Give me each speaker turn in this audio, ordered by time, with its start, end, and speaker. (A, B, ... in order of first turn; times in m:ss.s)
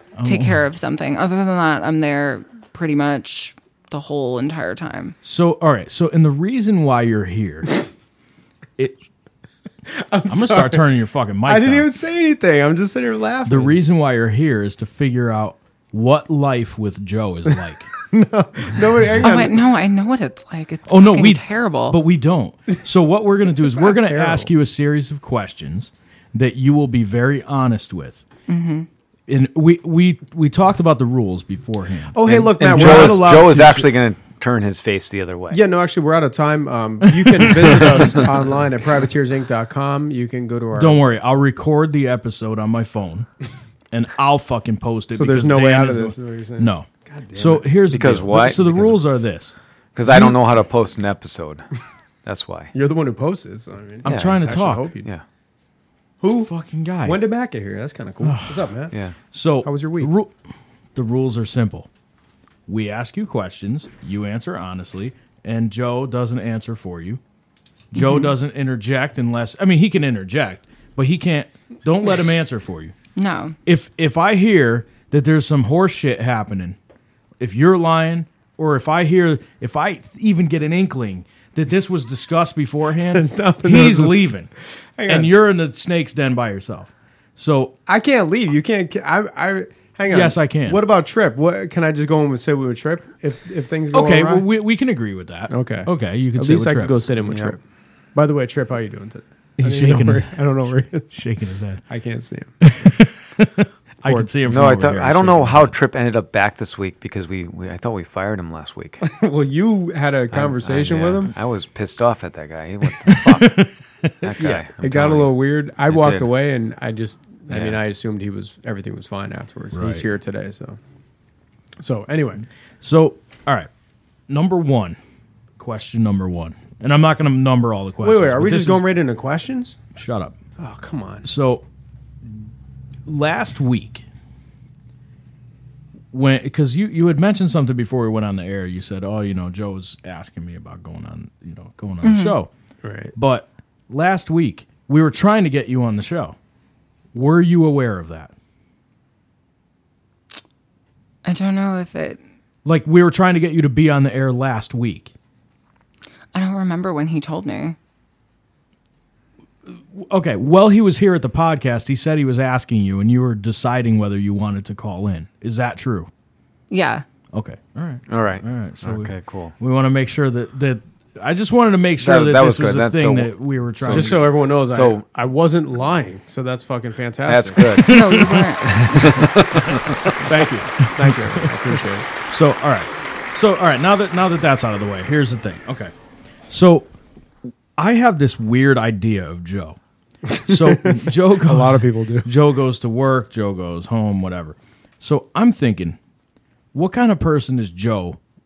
0:00.2-0:00.6 A
0:00.2-0:05.2 B
0:05.2-0:07.8 A
0:09.9-0:10.9 C
0:10.3-0:11.9 A
0:11.5-0:13.8 C
0:13.5-0:17.9 A
0:18.1-0:19.6 C
0:19.2-0:22.0 B
0:20.9-0:28.2 A
0:23.6-0:24.5 C
0:28.5-0:28.9 B
0:29.3-0:33.9 A
0:32.1-0:33.4 C
0:32.3-0:35.6 D
0:35.5-0:41.0 C
0:37.0-0:38.2 A
0:40.8-0:43.3 A
0:43.9-0:49.5 A
0:45.1-0:47.7 C
0:47.9-0:49.0 D
0:50.0-0:51.6 D
0:50.1-0:50.4 A
0:52.2-0:52.7 D
0:52.7-0:55.1 C
0:54.0-0:54.9 A
0:54.1-0:54.5 D
0:56.2-0:56.5 C
0:56.4-0:57.2 A
0:57.0-0:59.0 C
0:58.2-0:58.6 A
0:58.9-0:59.2 D
0:59.3-1:00.3 A
0:59.6-1:00.1 C
1:01.0-1:01.9 A
1:02.7-1:07.2 A
1:07.9-1:12.9 A
1:08.0-1:08.3 B
1:13.2-1:13.6 B
1:13.7-1:16.8 A
1:17.4-1:24.5 A
1:23.1-1:25.3 C
1:25.1-1:27.8 A
1:27.9-1:34.5 C
1:30.1-1:30.8 A
1:33.9-1:37.0 A
1:35.5-1:37.6 C
1:37.2-1:37.6 D
1:38.2-1:41.1 C
1:39.6-1:41.8 A
1:41.9-1:42.5 C
1:42.6-1:45.8 A
1:44.0-1:44.3 C
1:44.4-1:49.0 D
1:49.0-1:51.3 C
1:50.3-1:53.7 D
1:52.9-1:54.3 A
1:54.2-1:55.3 D
1:54.4-2:00.8 C
1:55.9-1:56.3 D
1:57.5-1:57.8 D
1:59.7-2:00.1 A
2:01.8-2:02.4 C
2:02.8-2:03.7 A
2:04.3-2:05.0 A
2:05.6-2:08.9 A
2:08.0-2:09.8 C
2:10.0-2:10.4 A
2:10.6-2:11.2 C
2:11.2-2:11.6 A
2:13.1-2:14.0 A
2:16.1-2:22.5 A
2:22.0-2:22.4 B
2:22.8-2:23.1 C
2:23.2-2:26.4 A
2:27.1-2:28.3 A
2:31.2-2:32.2 B
2:32.6-2:35.1 A
2:36.3-2:37.8 B
2:39.7-2:46.1 A
2:46.7-2:47.0 B
2:47.3-2:54.2 A
2:48.1-2:49.5 D
2:52.0-2:55.0 D
2:53.8-2:57.8 C
2:57.3-2:58.0 D
2:57.7-2:59.1 A
2:57.8-2:59.1 B
2:58.6-3:00.2 D
3:00.2-3:02.1 C
3:00.8-3:05.9 A
3:06.5-3:06.9 A
3:07.8-3:09.8 A
3:10.3-3:12.3 C
3:10.3-3:16.0 A
3:16.7-3:18.2 A